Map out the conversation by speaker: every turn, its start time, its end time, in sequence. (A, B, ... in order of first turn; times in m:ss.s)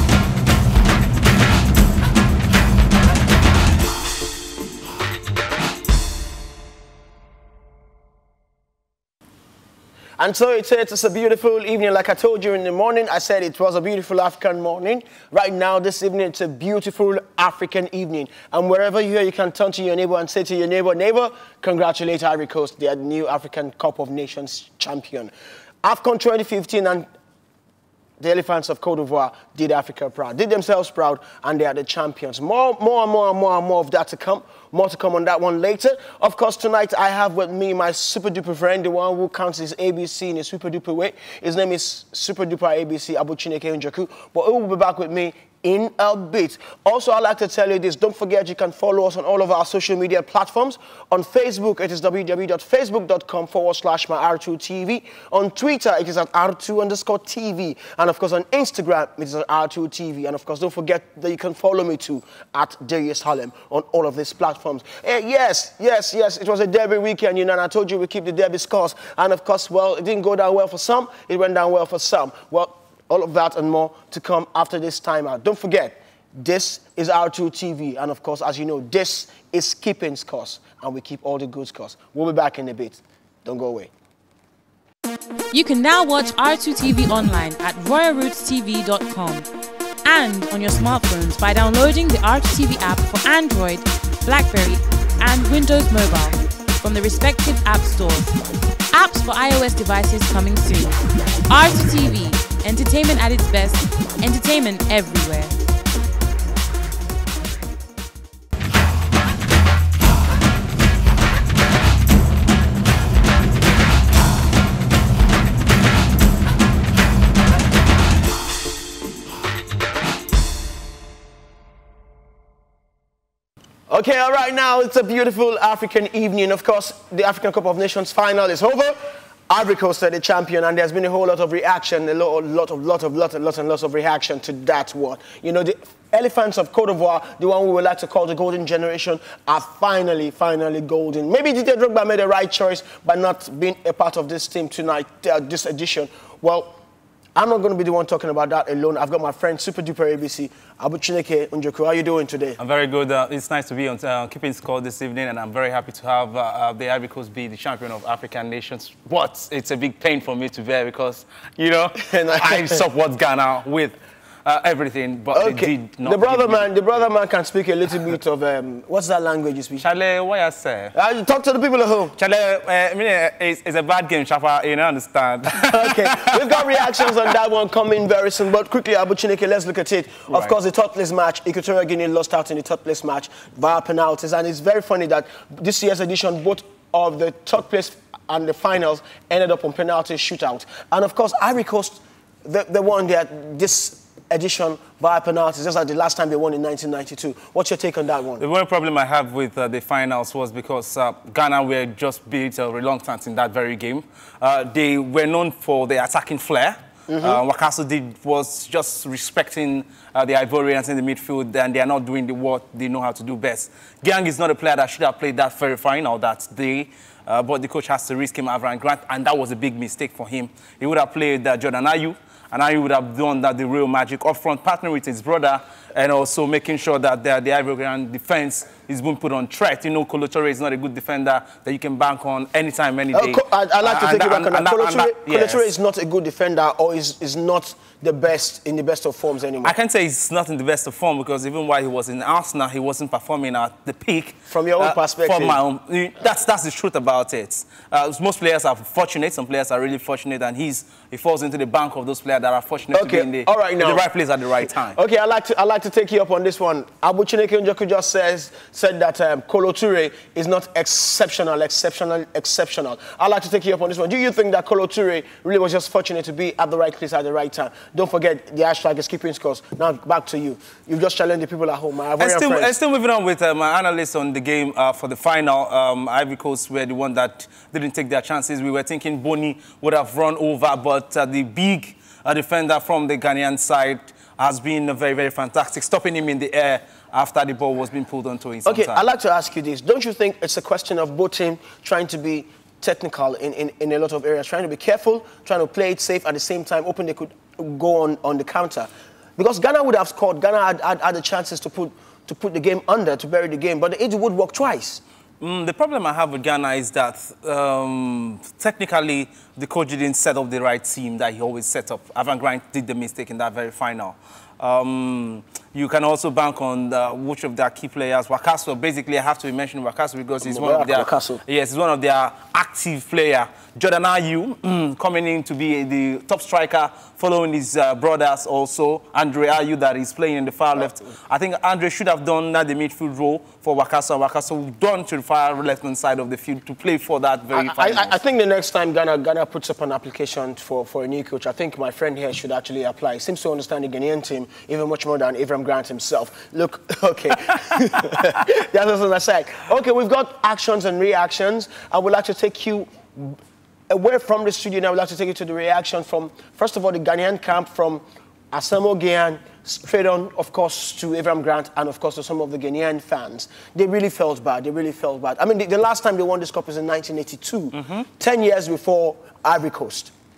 0:10.2-0:25.3 A
0:25.8-0:27.0 A
0:28.2-1:23.9 A
1:25.5-1:29.5 B
1:30.0-1:38.3 B
1:38.9-1:45.6 B
2:03.9-2:09.0 A
2:09.5-2:26.7 A
2:27.4-2:32.6 A
2:32.6-2:46.7 C
2:42.0-2:42.8 A
2:45.3-2:49.8 A
2:49.8-2:50.9 C
2:50.9-2:52.1 A
2:52.2-2:57.0 C
2:55.5-3:18.4 A
3:18.4-3:55.7 C
3:27.1-3:27.4 A
3:53.1-3:59.7 A
3:59.6-4:15.0 C
4:04.5-4:05.6 A
4:12.9-4:14.0 A
4:14.9-4:32.7 A
4:32.2-4:49.0 C
4:48.6-5:05.0 A
5:05.4-5:38.2 C
5:20.4-5:21.4 A
5:37.5-5:53.4 A
5:53.9-6:10.1 A
6:07.7-6:08.0 C